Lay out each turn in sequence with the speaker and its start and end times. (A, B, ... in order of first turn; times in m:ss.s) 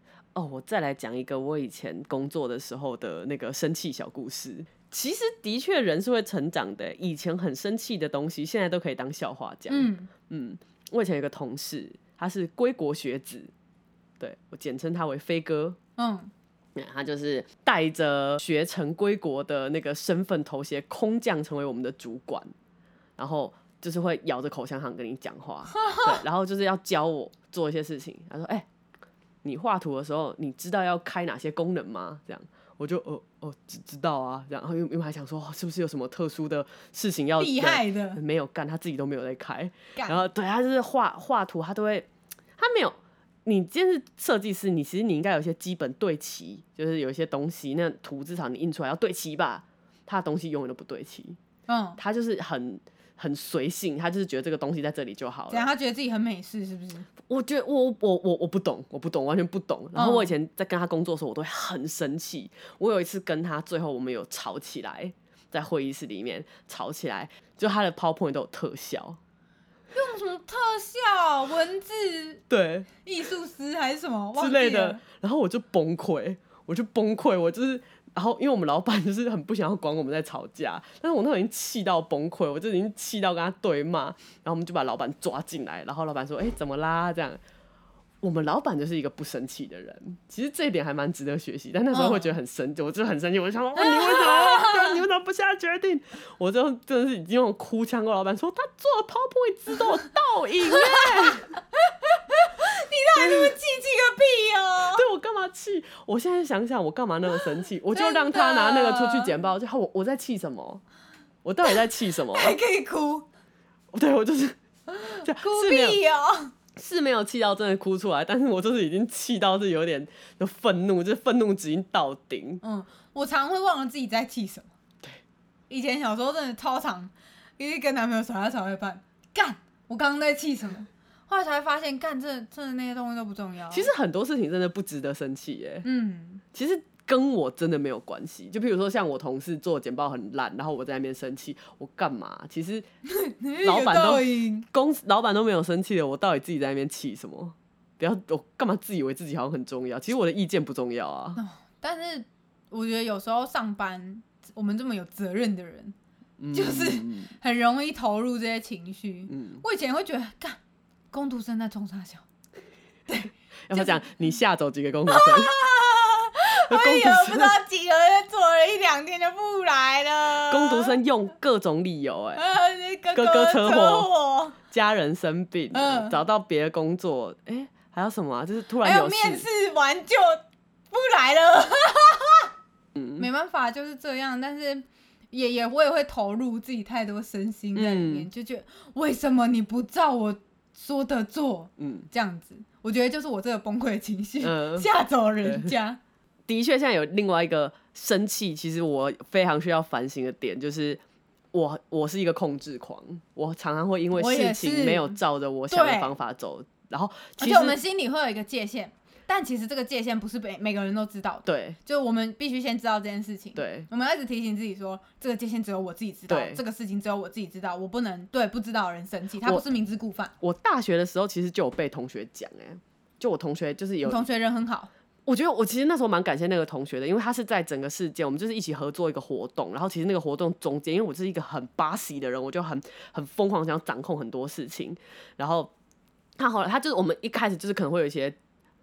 0:00.4-0:13.5 A
0:09.7-0:10.1 B
0:14.2-0:15.8 A
0:16.0-0:16.3 B
0:16.8-0:22.5 A
0:23.2-0:28.7 A
0:25.8-0:26.1 B
0:29.4-0:51.4 A
0:37.4-0:38.2 B
0:40.0-0:40.2 B
0:51.7-0:52.0 B
0:52.0-0:55.7 A
0:55.5-0:57.1 B
0:57.3-1:09.2 A
1:00.0-1:00.3 B
1:09.9-1:12.4 B
1:12.5-1:12.9 A
1:13.0-1:15.0 B
1:14.4-1:27.4 A
1:28.2-1:41.5 A
1:31.9-1:32.3 B
1:33.8-1:35.0 B
1:40.7-1:45.0 B
1:43.1-1:43.6 A
1:44.9-1:50.8 A
1:47.9-1:49.3 B
1:51.4-1:52.6 A
1:52.3-1:53.3 B
1:53.9-1:54.6 A
1:54.9-1:56.5 B
1:55.2-1:56.0 A
1:56.8-2:02.6 A
2:02.6-2:04.7 B
2:05.7-2:13.9 B
2:13.7-2:15.9 A
2:15.8-2:16.4 B
2:16.5-2:22.9 A
2:23.1-2:24.7 B
2:23.6-2:31.4 A
2:31.4-2:36.0 B
2:36.4-2:37.3 A
2:36.5-2:40.6 B
2:39.3-2:39.6 A
2:41.1-2:42.2 B
2:43.1-2:44.0 B
2:43.7-2:45.5 A
2:45.1-2:50.9 B
2:46.7-2:47.6 A
2:50.5-2:52.4 A
2:52.4-2:54.6 B
2:53.1-2:54.1 A
2:54.7-2:59.4 A
2:55.7-2:56.2 B
2:58.8-3:02.5 B
3:03.0-3:16.0 B
3:07.8-3:08.3 A
3:11.8-3:12.1 A
3:14.4-3:14.9 A
3:15.4-3:15.7 A
3:16.5-3:21.0 A
3:21.5-3:27.8 A
3:24.1-3:25.2 B
3:25.7-3:26.1 B
3:27.4-3:40.3 B
3:31.5-3:31.8 A
3:33.6-3:33.9 A
3:36.3-3:36.6 A
3:40.4-3:44.2 A
3:44.0-3:44.9 B
3:45.3-3:55.7 A
3:56.4-3:58.4 A